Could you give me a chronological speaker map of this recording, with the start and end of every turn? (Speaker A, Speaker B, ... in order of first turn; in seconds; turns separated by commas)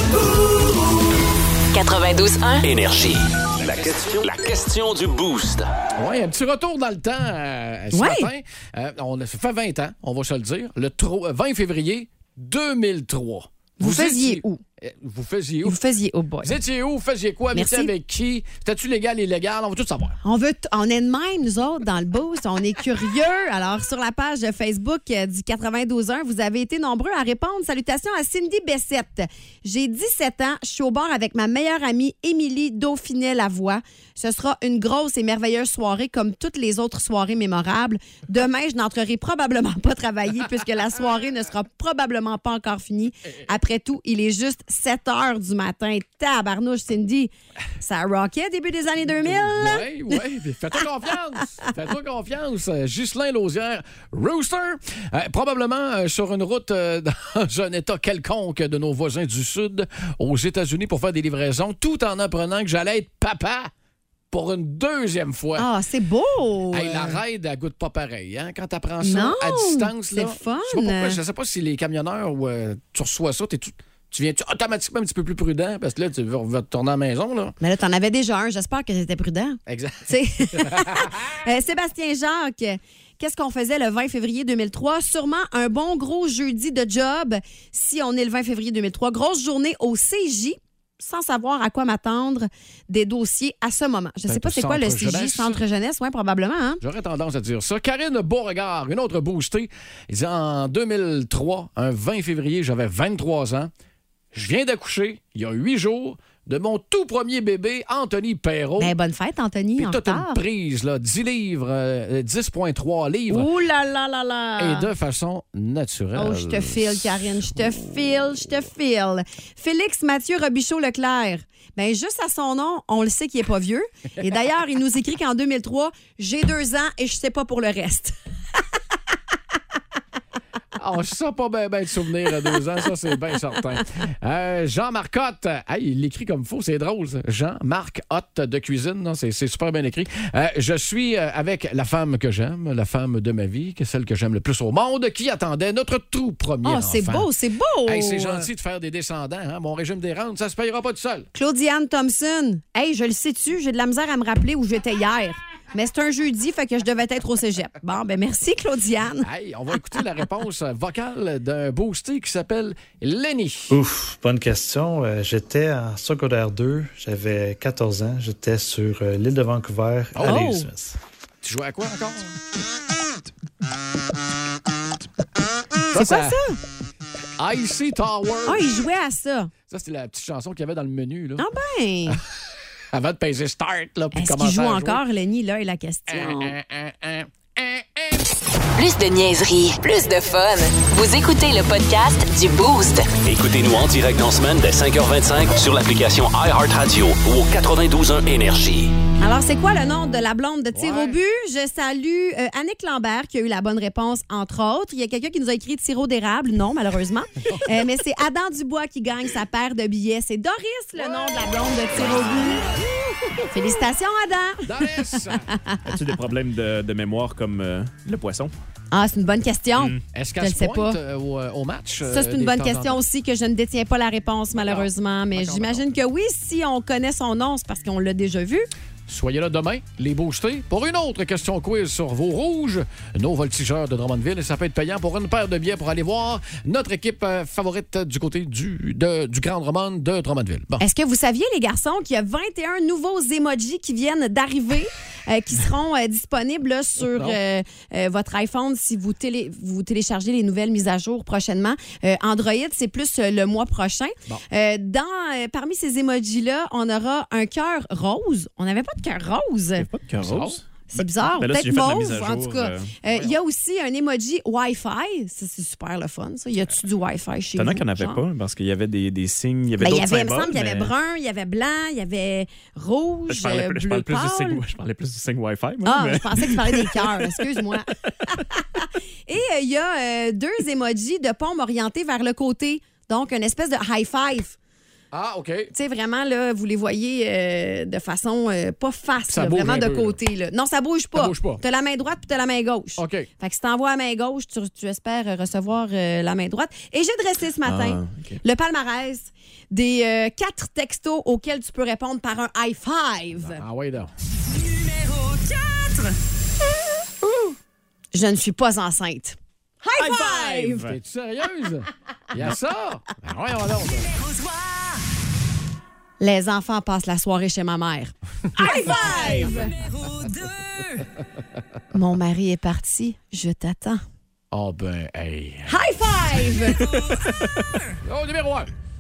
Speaker A: 1.7-2.6, Speaker B: 2.6-5.7, Speaker C: 6.0-15.8, Speaker D: 7.9-8.3, Speaker D: 13.8-14.6, Speaker D: 15.7-16.6, Speaker C: 16.4-20.2, Speaker D: 17.5-17.9, Speaker D: 20.2-50.2, Speaker C: 49.1-63.7, Speaker C: 64.3-65.7, Speaker D: 65.6-67.2, Speaker C: 66.7-77.6, Speaker D: 69.0-71.2, Speaker D: 77.6-96.8, Speaker C: 79.7-81.2, Speaker C: 94.3-95.6, Speaker C: 96.8-103.7, Speaker C: 104.3-108.9, Speaker D: 108.8-110.4, Speaker C: 109.8-113.5, Speaker D: 113.3-114.9, Speaker C: 114.6-117.9, Speaker D: 116.2-128.2, Speaker C: 130.8-147.3, Speaker D: 146.6-148.5, Speaker C: 147.9-151.3, Speaker D: 151.3-159.3, Speaker C: 159.2-163.8, Speaker E: 163.7-171.0, Speaker C: 170.2-170.5, Speaker D: 170.2-170.7, Speaker C: 171.4-172.4, Speaker C: 175.9-176.4, Speaker D: 175.9-176.6, Speaker C: 177.4-178.7, Speaker D: 178.4-179.5, Speaker C: 179.7-181.5, Speaker D: 181.4-182.2, Speaker C: 182.9-185.0, Speaker D: 184.2-186.5, Speaker C: 186.1-188.2, Speaker A: 188.8-193.1, Speaker B: 193.2-199.0, Speaker D: 199.2-212.7, Speaker C: 200.7-201.2, Speaker C: 211.0-212.7, Speaker D: 213.5-215.2, Speaker C: 214.6-215.5, Speaker F: 215.9-218.5, Speaker D: 218.9-221.0, Speaker F: 219.8-220.0, Speaker C: 220.1-223.0, Speaker D: 222.1-228.7, Speaker C: 224.5-225.9, Speaker C: 229.1-240.8, Speaker D: 240.8-259.9, Speaker C: 247.0-247.4, Speaker F: 259.8-262.9, Speaker C: 260.2-260.6, Speaker D: 260.9-268.2, Speaker C: 263.1-263.4, Speaker F: 267.6-270.9, Speaker D: 269.8-274.6, Speaker F: 273.3-277.6, Speaker D: 275.9-284.6, Speaker C: 285.1-285.7, Speaker D: 285.7-303.6, Speaker C: 289.3-290.2, Speaker C: 291.1-291.6, Speaker C: 293.0-293.3, Speaker F: 297.6-298.4, Speaker C: 303.4-304.1, Speaker D: 307.2-307.5, Speaker D: 308.1-310.9, Speaker F: 310.0-310.9, Speaker C: 310.8-314.1, Speaker D: 316.2-319.8, Speaker F: 318.6-319.8, Speaker D: 321.9-324.0, Speaker C: 324.5-325.8, Speaker D: 325.7-327.0, Speaker F: 326.9-327.6, Speaker C: 328.1-328.7